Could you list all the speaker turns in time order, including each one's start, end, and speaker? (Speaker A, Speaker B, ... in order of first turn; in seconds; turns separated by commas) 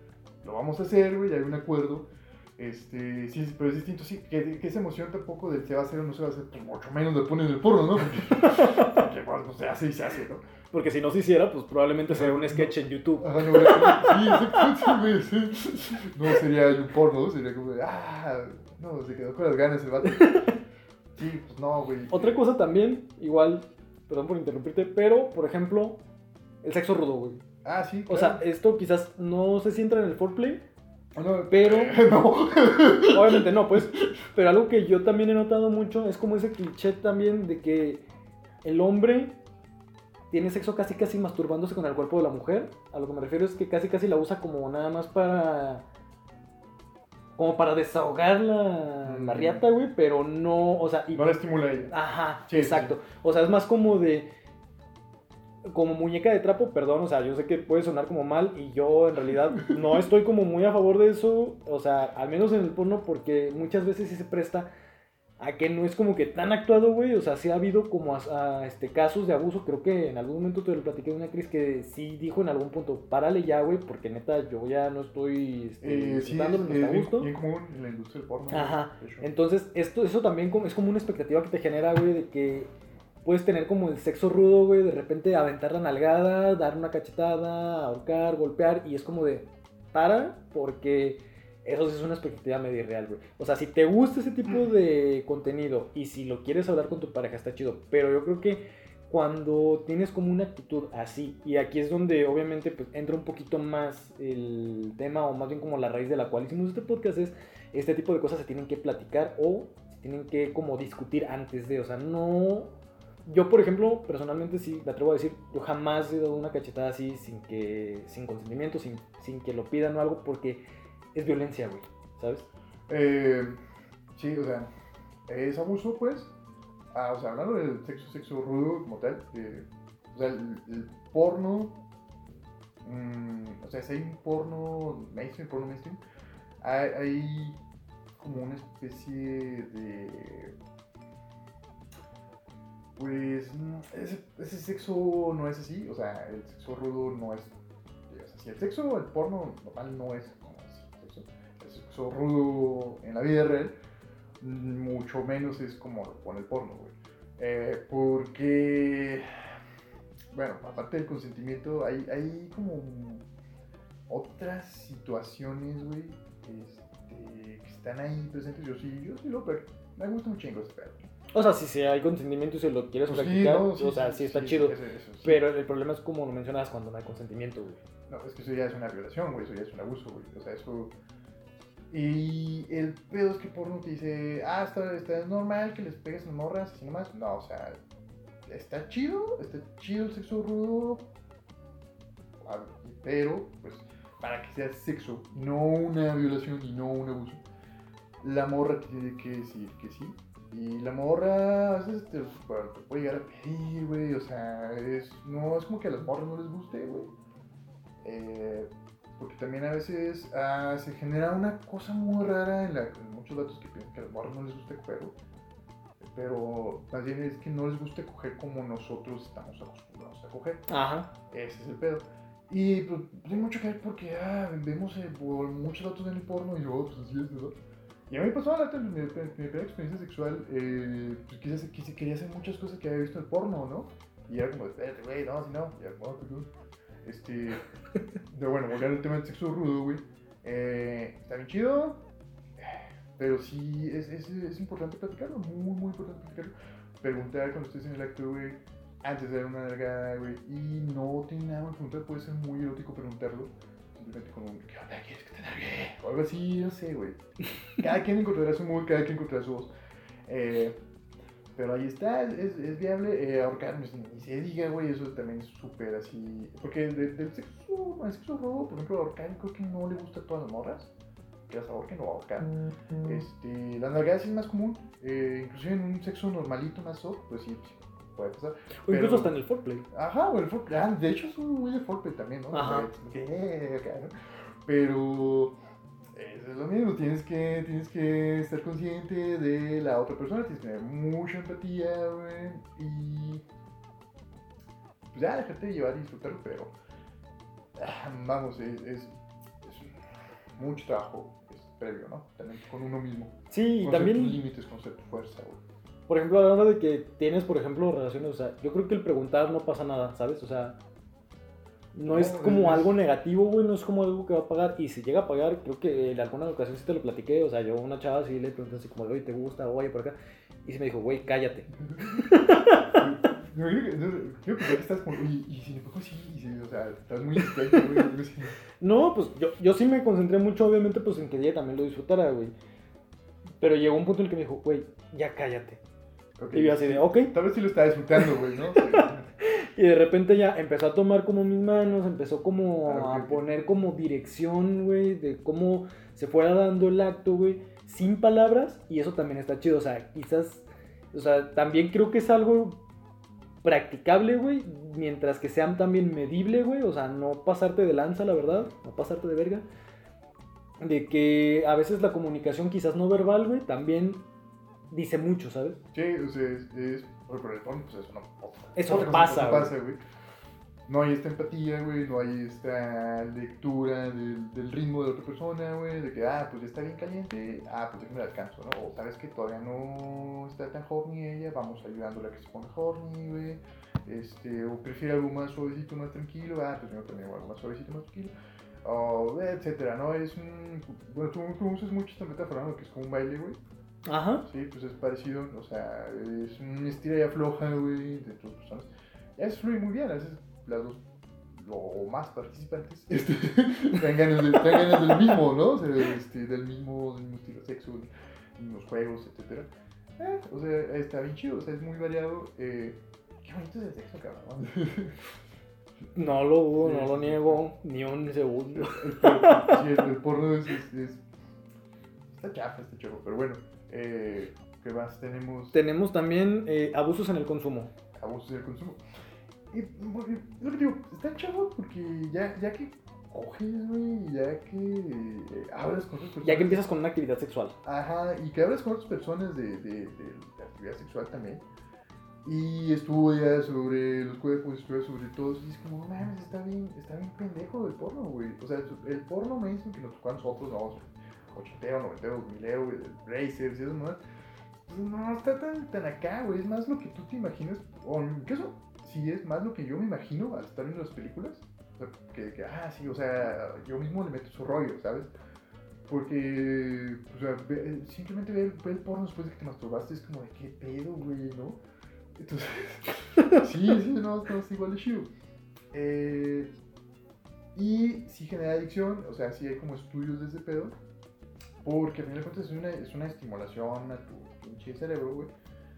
Speaker A: 0.4-10.4, Speaker B: 8.4-8.9, Speaker B: 10.7-14.9, Speaker A: 12.1-20.4, Speaker B: 20.1-20.6, Speaker A: 21.2-22.4, Speaker B: 22.1-26.0, Speaker B: 26.6-27.4, Speaker A: 27.6-28.4, Speaker B: 28.1-30.6, Speaker A: 31.1-34.0, Speaker B: 31.5-32.0, Speaker B: 33.1-38.0, Speaker B: 38.6-39.4, Speaker B: 40.3-45.9, Speaker B: 47.4-51.4, Speaker A: 49.0-49.6, Speaker A: 51.1-52.0, Speaker B: 51.9-54.3, Speaker A: 52.5-53.0, Speaker B: 55.7-64.7, Speaker B: 65.4-77.3, Speaker A: 75.8-79.3, Speaker B: 78.5-82.7, Speaker B: 83.2-120.6, Speaker B: 121.1-122.5, Speaker A: 122.9-123.6, Speaker A: 124.2-124.7, Speaker A: 125.3-126.3, Speaker A: 126.9-131.8, Speaker A: 132.8-136.0, Speaker A: 136.6-137.6, Speaker A: 138.2-140.5, Speaker A: 143.0-147.6, Speaker A: 148.1-153.7, Speaker A: 154.4-159.5, Speaker A: 160.3-163.3, Speaker A: 164.1-171.0, Speaker B: 171.3-177.8, Speaker A: 173.1-175.4, Speaker A: 178.1-180.9, Speaker A: 181.9-187.8, Speaker A: 188.5-191.1, Speaker A: 192.4-197.4, Speaker A: 198.2-207.1, Speaker A: 208.0-215.1, Speaker A: 216.0-220.6, Speaker B: 220.7-221.1, Speaker A: 221.3-227.5, Speaker A: 228.1-236.5, Speaker A: 237.0-237.7, Speaker A: 238.3-242.0, Speaker A: 242.6-257.2, Speaker A: 257.8-259.7, Speaker A: 260.3-260.8, Speaker A: 261.6-270.9, Speaker A: 271.5-279.4, Speaker B: 278.9-279.9, Speaker A: 279.9-284.1, Speaker B: 282.5-282.9, Speaker A: 284.6-285.6, Speaker A: 286.1-293.4, Speaker A: 295.1-296.8, Speaker A: 297.8-300.0, Speaker A: 300.6-305.6, Speaker B: 303.5-304.4, Speaker B: 306.1-310.8, Speaker B: 311.9-323.0, Speaker A: 312.1-313.0, Speaker A: 321.8-322.3, Speaker A: 322.9-328.6, Speaker B: 327.5-327.8, Speaker B: 328.8-332.5, Speaker B: 333.6-335.8, Speaker A: 336.4-339.3, Speaker B: 336.5-337.3, Speaker B: 338.2-352.8, Speaker A: 342.9-343.4, Speaker B: 353.6-359.7, Speaker B: 360.8-364.3, Speaker B: 364.9-365.8, Speaker A: 365.9-370.0, Speaker B: 368.8-369.7, Speaker A: 370.9-393.6, Speaker B: 394.1-394.4, Speaker A: 394.5-415.2, Speaker B: 416.1-419.8, Speaker A: 416.8-417.6, Speaker A: 418.8-421.2, Speaker A: 422.3-425.8, Speaker B: 425.7-427.9, Speaker A: 428.2-429.0, Speaker A: 429.7-436.8, Speaker B: 436.4-437.8, Speaker A: 437.8-441.6, Speaker A: 442.4-454.2, Speaker A: 454.9-465.3, Speaker A: 466.1-471.8, Speaker A: 472.4-475.3, Speaker A: 475.9-476.7, Speaker A: 477.8-480.9, Speaker A: 481.8-485.5